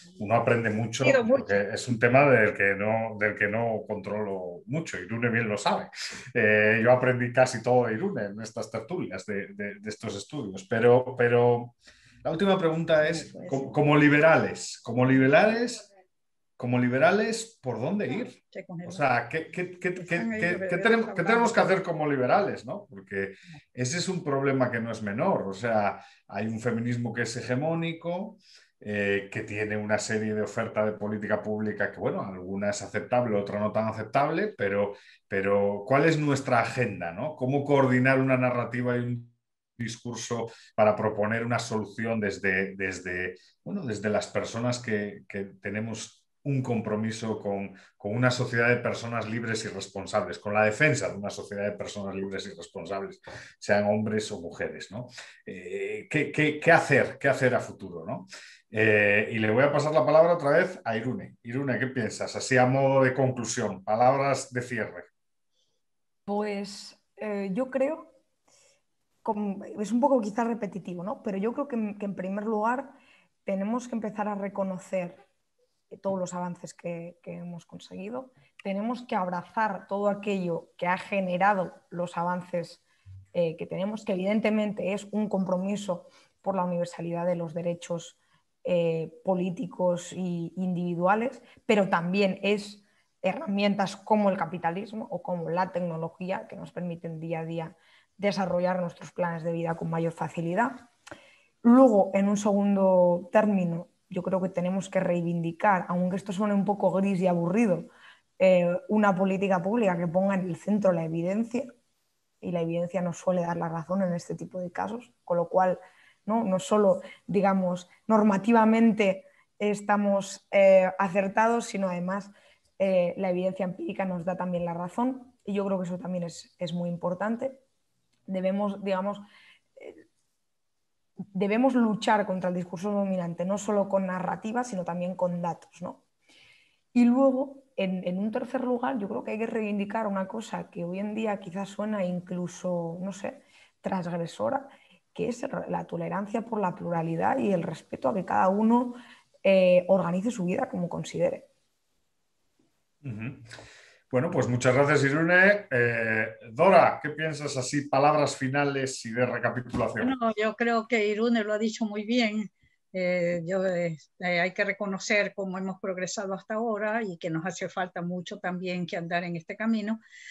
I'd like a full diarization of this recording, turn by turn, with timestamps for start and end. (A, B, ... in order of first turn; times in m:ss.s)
0:00.2-0:15.8 A
0:01.0-0:01.6 B
0:13.0-0:13.8 B
0:16.6-1:05.1 A
0:18.5-0:19.0 B
0:20.0-0:21.7 B
1:06.3-1:08.1 C
1:09.2-1:15.2 C
1:15.9-1:22.8 C
1:23.3-1:40.8 C
1:41.6-1:51.7 C
1:52.4-2:07.6 C
2:08.3-2:09.2 C
2:09.8-2:10.0 C
2:11.3-2:16.0 C
2:16.9-2:31.5 C
2:33.0-2:33.4 A
2:34.1-2:40.2 A
2:40.0-2:50.0 B